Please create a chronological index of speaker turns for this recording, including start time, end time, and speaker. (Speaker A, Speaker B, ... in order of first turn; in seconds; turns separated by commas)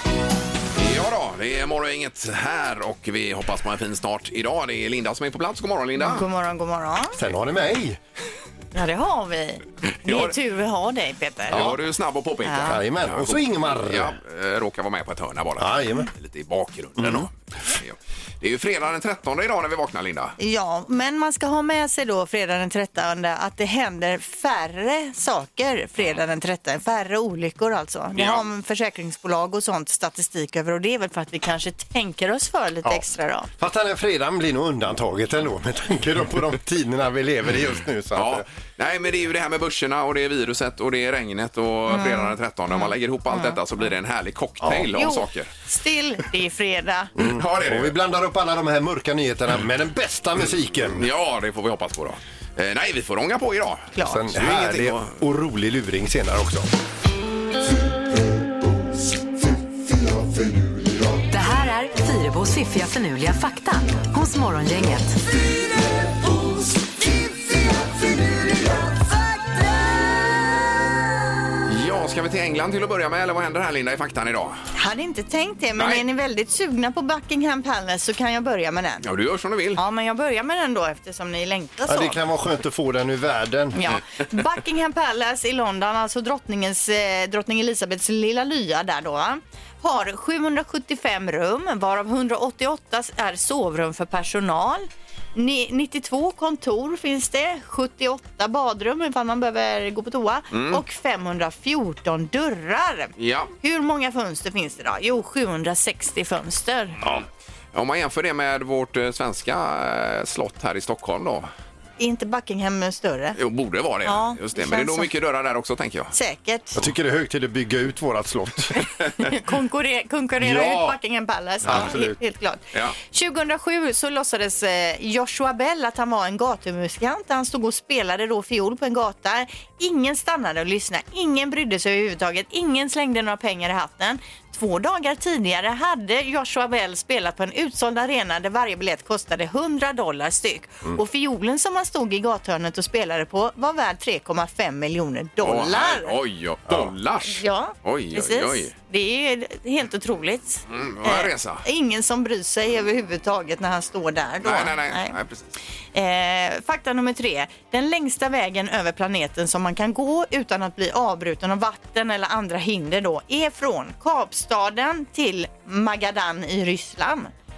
Speaker A: 0.8-6.3, Speaker B: 6.0-7.2, Speaker C: 7.2-8.0, Speaker B: 8.8-11.7, Speaker A: 10.0-10.3, Speaker A: 11.5-20.4, Speaker B: 12.4-12.8, Speaker C: 12.6-14.1, Speaker C: 15.6-16.1, Speaker C: 17.0-17.3, Speaker B: 20.4-33.5, Speaker A: 28.2-28.5, Speaker C: 33.6-38.5, Speaker A: 38.1-45.5, Speaker B: 41.9-43.6, Speaker C: 44.6-44.9, Speaker B: 44.9-47.1, Speaker C: 47.2-51.0, Speaker A: 47.2-48.0, Speaker A: 51.0-55.2, Speaker B: 54.0-54.3, Speaker C: 54.0-56.7, Speaker D: 61.3-65.2, Speaker A: 71.7-74.6, Speaker B: 74.8-79.1, Speaker A: 75.8-76.0, Speaker A: 79.0-79.8, Speaker B: 79.8-82.2, Speaker C: 81.9-83.8, Speaker B: 83.7-107.0, Speaker A: 100.5-100.8, Speaker A: 103.2-103.5, Speaker A: 107.0-111.5, Speaker B: 112.0-113.4, Speaker A: 113.4-116.1, Speaker B: 114.0-115.1, Speaker B: 116.1-116.8, Speaker C: 116.8-118.7, Speaker B: 118.8-146.2, Speaker C: 120.4-121.0, Speaker C: 121.6-122.2, Speaker A: 145.4-148.7, Speaker B: 147.3-155.2, Speaker A: 150.7-151.7, Speaker A: 154.4-155.5, Speaker B: 155.9-167.3